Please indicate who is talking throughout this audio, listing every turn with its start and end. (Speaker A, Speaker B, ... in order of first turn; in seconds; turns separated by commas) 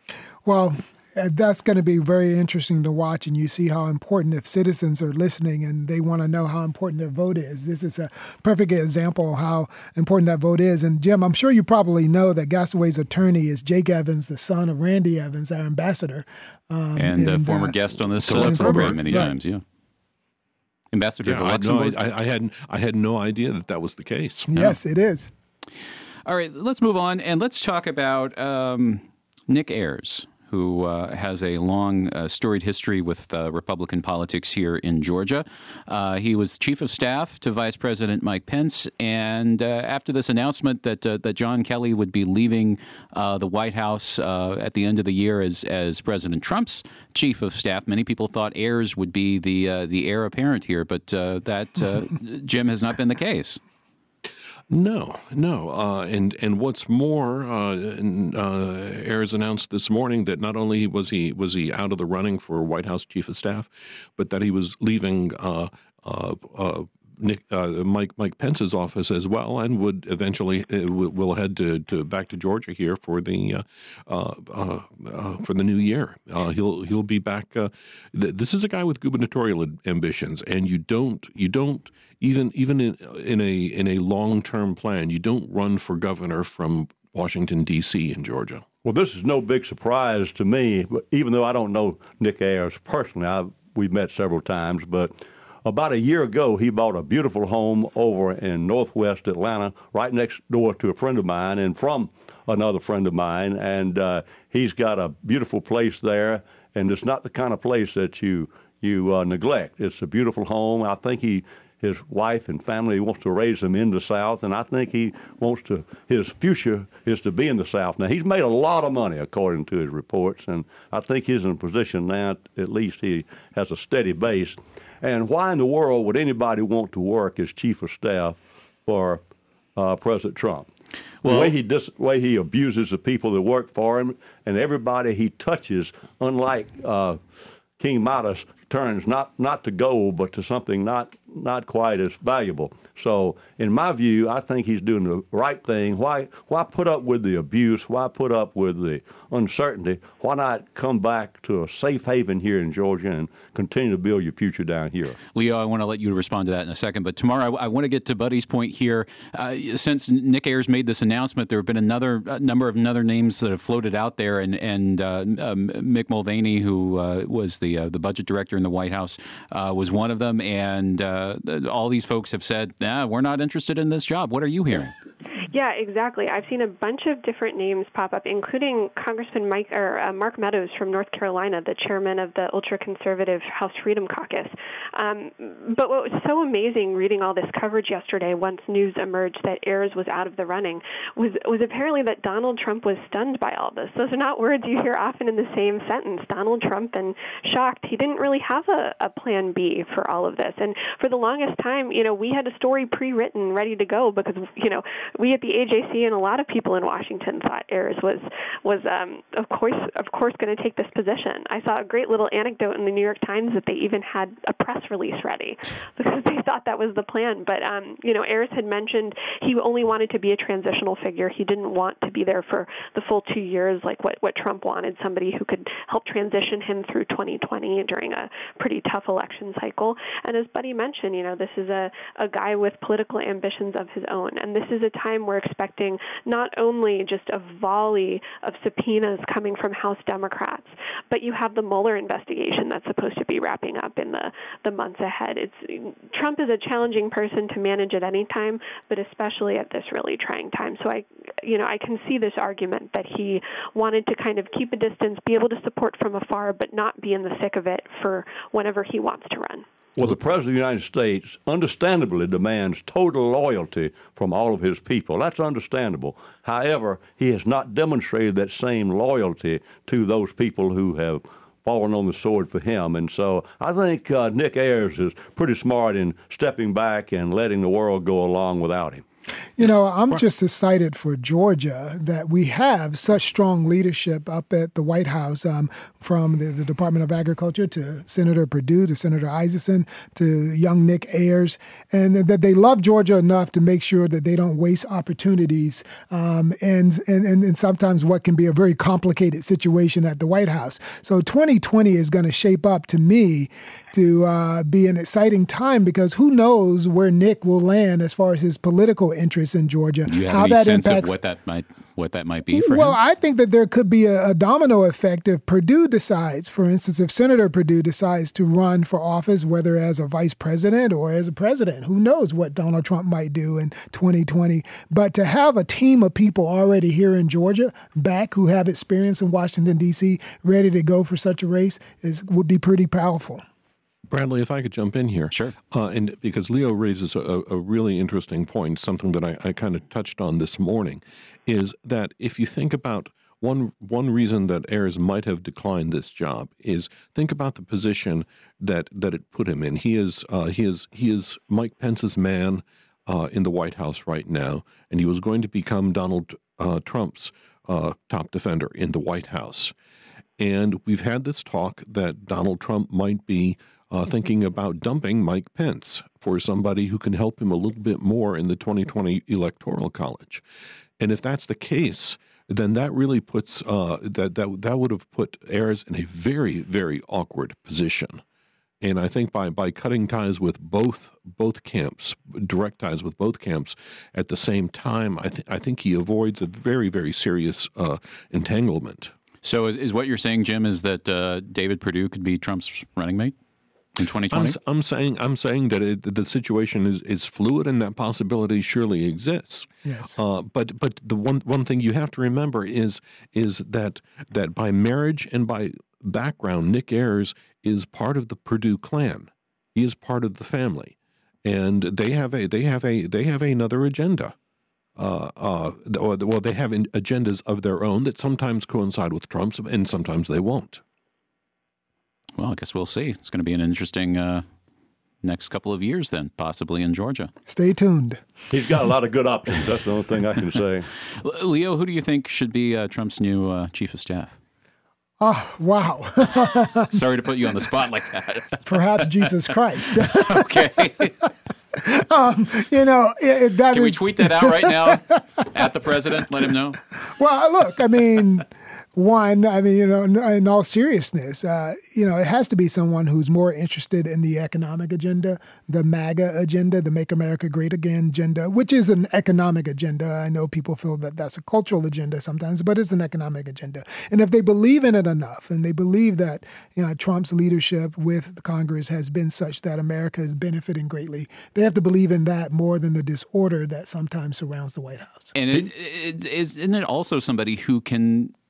Speaker A: 0.4-17.8, Speaker B: 16.9-19.6, Speaker C: 18.2-19.3, Speaker A: 18.3-19.3, Speaker B: 20.9-22.0, Speaker C: 21.2-24.5, Speaker A: 24.5-25.3, Speaker B: 26.2-53.6, Speaker C: 54.7-88.7, Speaker D: 88.8-95.1, Speaker D: 95.6-129.2, Speaker D: 129.8-130.7, Speaker B: 131.2-131.5, Speaker D: 131.2-137.2, Speaker D: 137.8-155.2, Speaker B: 155.3-174.9, Speaker E: 175.5-259.6, Speaker D: 259.9-279.0, Speaker A: 279.6-311.1, Speaker B: 310.1-313.0, Speaker A: 312.5-333.4, Speaker C: 334.1-359.7, Speaker C: 360.4-370.4, Speaker C: 371.0-378.2, Speaker C: 378.8-389.1, Speaker B: 389.4-393.3, Speaker B: 393.9-394.6, Speaker C: 394.3-414.3, Speaker A: 399.8-400.2, Speaker C: 415.0-420.8, Speaker B: 422.4-424.4, Speaker B: 425.2-427.3, Speaker A: 427.5-428.2, Speaker D: 428.5-430.9, Speaker B: 431.2-434.4, Speaker A: 435.2-437.0, Speaker B: 436.9-439.2, Speaker A: 438.6-440.7, Speaker B: 440.0-441.1, Speaker A: 441.2-445.0, Speaker B: 443.7-446.8, Speaker A: 447.0-475.3, Speaker B: 475.3-478.3